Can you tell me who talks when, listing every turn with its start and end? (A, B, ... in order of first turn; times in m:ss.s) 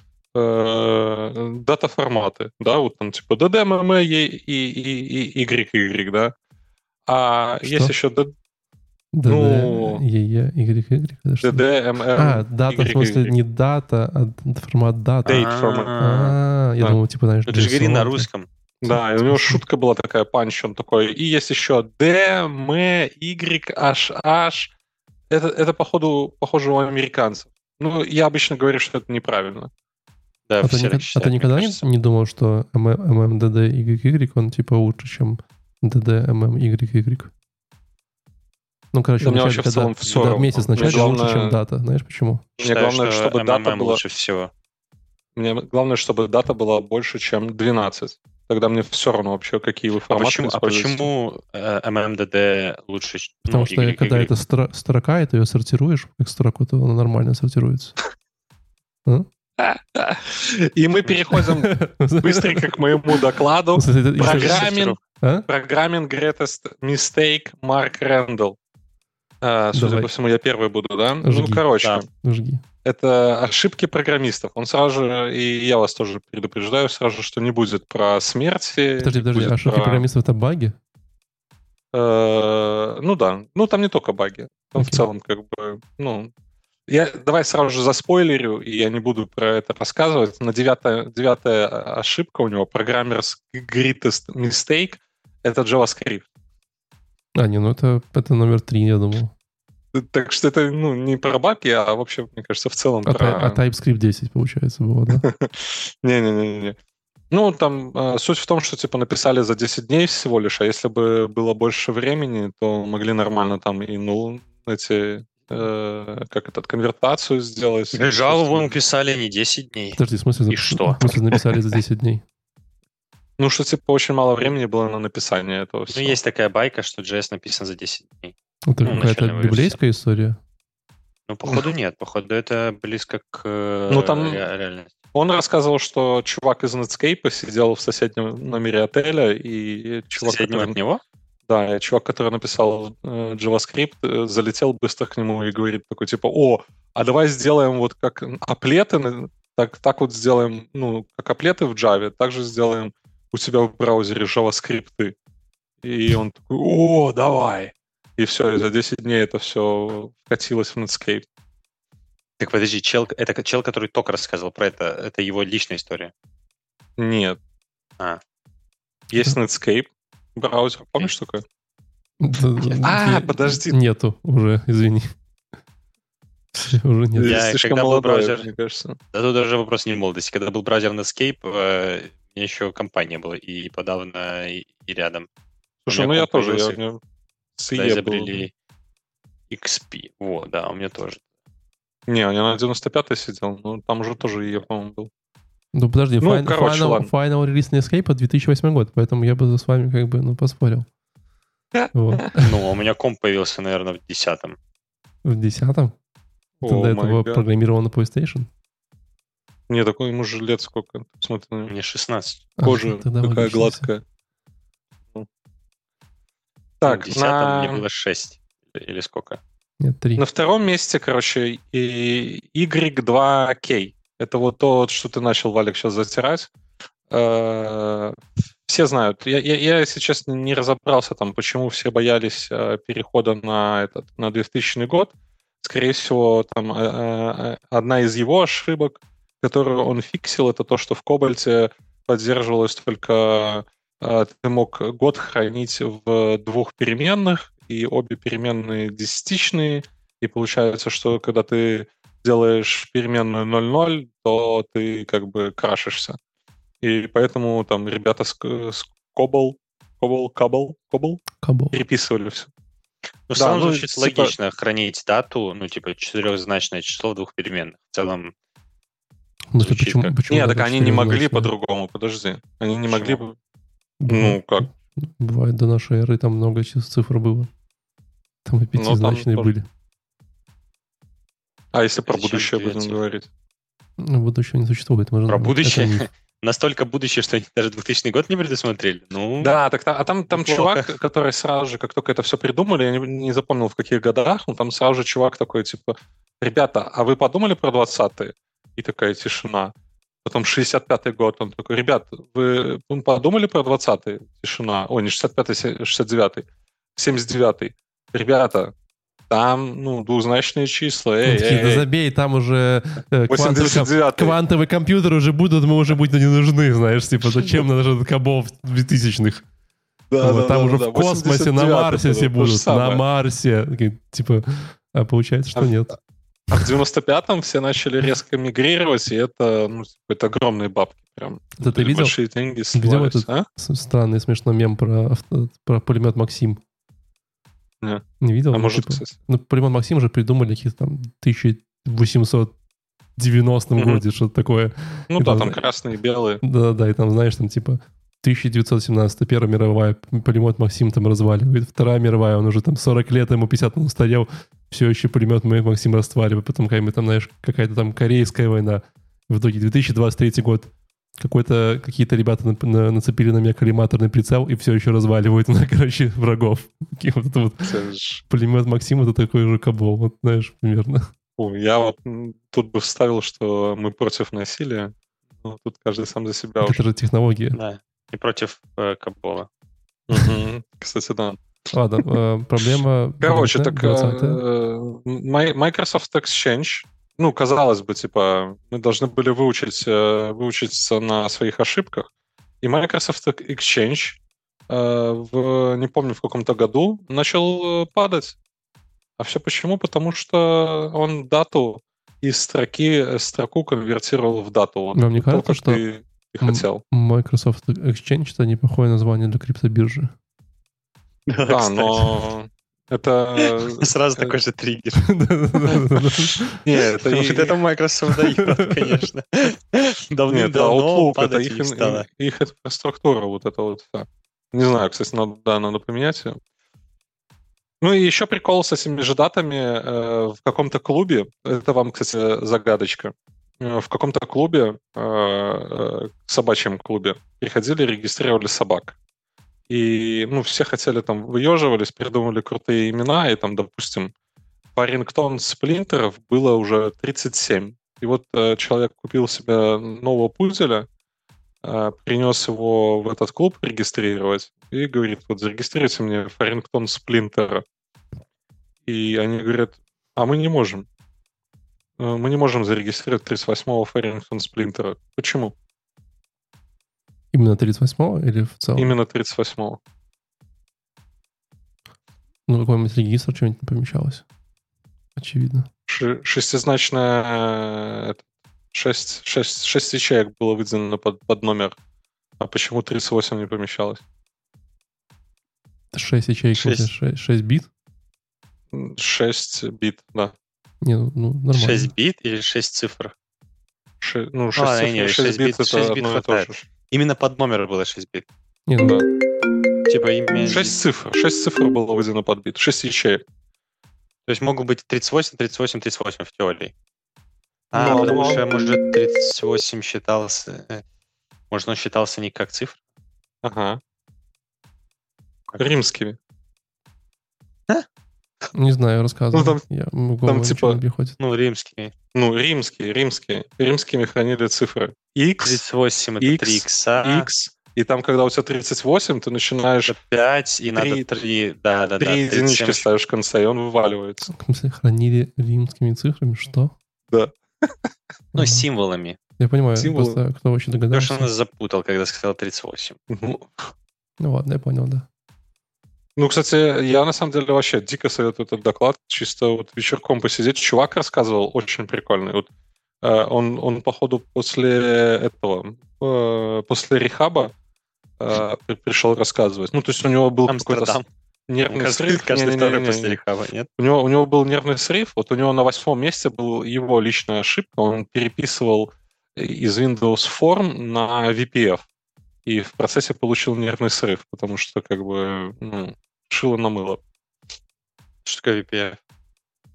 0:00.3-0:06.3 A
0:07.0-0:08.3 A
0:07.6-0:07.9 B
0:09.1-0:11.6 B
0:09.3-0:10.0 A
0:11.4-0:13.3 A
0:12.2-0:15.4 B
0:15.2-0:16.0 A
0:15.2-0:16.4 C
0:16.0-0:18.3 B
0:17.5-0:18.5 C
0:18.8-0:19.6 B
0:18.8-0:24.7 A
0:25.3-0:29.7 A
0:30.5-0:31.8 C
0:30.6-0:37.3 B
0:38.9-0:42.4 B
0:39.2-0:41.6 A
0:40.0-0:41.1 C
0:42.6-0:44.5 C
0:42.6-0:44.0 A
0:45.4-0:51.1 A
0:50.1-0:54.3 C
0:53.4-0:58.0 B
0:59.6-1:08.6 A
1:01.3-1:03.2 B
1:03.7-1:04.6 B
1:04.2-1:05.0 C
1:05.2-1:05.5 B
1:09.4-1:12.0 A
1:09.7-1:10.1 B
1:11.2-1:12.6 B
1:12.8-1:20.0 A
1:19.0-1:20.7 B
1:21.9-1:26.3 A
1:24.7-1:25.1 B
1:26.9-1:36.2 A
1:37.4-1:39.3 B
1:39.9-1:43.6 A
1:43.0-1:45.2 B
1:45.1-1:46.8 A
1:47.3-1:58.7 A
1:57.9-2:00.0 C
2:00.0-2:02.2 B
2:00.5-2:01.4 C
2:03.4-2:06.2 A
2:05.9-2:09.8 C
2:08.7-2:10.4 B
2:11.3-2:15.0 C
2:13.9-2:14.4 A
2:15.1-2:20.8 A
2:20.2-2:21.0 C
2:21.5-2:35.1 A
2:35.8-2:41.2 A
2:42.4-2:46.1 C
2:47.0-2:47.4 A
2:49.1-2:51.4 A
2:52.2-2:55.2 B
2:52.8-2:53.8 A
2:56.6-2:57.4 B
2:57.2-2:59.0 A
2:57.2-2:58.5 C
2:59.1-3:05.3 C
3:05.8-3:07.0 A
3:05.9-3:06.8 C
3:07.6-3:08.4 A
3:07.7-3:08.5 C
3:09.5-3:11.2 C
3:12.1-3:15.1 A
3:15.7-3:20.9 B
3:16.2-3:17.1 A
3:21.7-3:22.2 A
3:21.9-3:22.5 B
3:22.4-3:24.6 C
3:25.2-3:26.0 B
3:26.6-3:27.4 A
3:26.6-3:28.5 B
3:29.7-3:31.7 A
3:31.7-3:32.4 C
3:32.6-3:33.9 B
3:32.6-3:34.0 A
3:36.8-3:37.8 A
3:36.8-3:39.4 C
3:39.8-3:40.2 B
3:40.2-3:46.5 A
3:47.1-4:16.2 A
4:16.8-4:22.5 A
4:21.4-4:21.8 B
4:23.3-4:28.3 C
4:23.4-4:24.3 A
4:29.5-4:31.5 B
4:29.6-4:30.2 C
4:30.3-4:33.3 A
4:32.9-4:33.2 C
4:34.0-4:37.5 B
4:34.1-4:34.7 A
4:38.4-4:39.7 B
4:38.7-4:39.5 A
4:41.7-4:43.3 A
4:42.1-4:43.0 C
4:44.0-4:46.1 B
4:45.3-4:49.5 C
4:49.4-4:59.7 A
4:50.3-4:50.9 C
5:00.2-5:08.7 A
5:09.3-5:11.8 A
5:11.2-5:19.4 B
5:13.3-5:14.4 A
5:20.1-5:23.0 A
5:20.2-5:26.0 B
5:26.5-5:33.4 A
5:31.6-5:32.2 B
5:32.7-5:36.6 B
5:37.8-5:39.1 A
5:38.2-5:42.5 B
5:43.2-5:45.6 B
5:43.8-5:44.0 A
5:45.1-5:46.4 A
5:46.4-6:07.7 B
6:07.6-6:08.2 A
6:08.3-6:11.1 B
6:11.4-6:16.8 A
6:16.6-6:17.6 B
6:17.5-6:19.5 C
6:20.1-6:21.4 A
6:21.7-6:24.4 B
6:23.2-6:32.1 A
6:32.6-6:38.4 A
6:39.2-6:46.8 A
6:45.0-6:45.8 B
6:46.4-6:50.1 B
6:51.3-6:52.1 C
6:51.5-6:54.3 A
6:53.4-6:55.0 C
6:55.0-6:56.6 B
6:56.6-6:57.6 A
6:56.7-7:02.0 C
6:58.1-6:58.7 B
7:00.3-7:06.4 A
7:07.8-7:18.9 A
7:19.7-7:24.1 A
7:24.7-7:30.9 A
7:31.6-7:37.6 A
7:38.8-7:40.8 A
7:42.0-7:45.5 A
7:47.3-7:48.9 B
7:48.8-7:49.8 A
7:52.5-7:54.2 B
7:55.2-7:55.7 B
7:55.9-8:01.7 A
8:02.4-8:04.0 A
8:05.9-8:07.7 B
8:06.6-8:06.9 C
8:08.7-8:10.3 A
8:10.8-8:11.9 B
8:11.5-8:13.1 C
8:14.0-8:16.6 A
8:14.6-8:18.3 C
8:18.7-8:19.0 B
8:19.9-8:20.7 C
8:20.4-8:23.2 A
8:24.3-8:26.7 C
8:27.7-8:30.8 C
8:27.7-8:28.4 A
8:31.5-8:32.8 C
8:33.4-8:33.8 A
8:35.6-8:36.2 A
8:38.5-8:41.2 B
8:39.3-8:39.6 A
8:40.2-8:40.8 A
8:41.2-8:41.9 C
8:42.1-8:45.6 A
8:45.4-8:47.3 C
8:46.2-8:49.9 A
8:49.9-8:52.8 C
8:50.7-8:51.0 A
8:52.0-8:54.3 A
8:54.3-8:56.7 B
8:57.1-8:57.7 A
8:58.3-8:58.6 B
8:58.3-8:59.2 C
8:59.4-9:01.3 B
8:59.8-9:00.2 A
9:00.9-9:03.0 C
9:03.1-9:03.7 A
9:04.2-9:05.0 B
9:06.2-9:12.5 A
9:13.0-9:17.5 A
9:18.2-9:23.2 A
9:20.5-9:21.0 C
9:21.7-9:23.7 C
9:23.8-9:31.8 A
9:32.4-9:37.0 A
9:38.2-9:39.0 C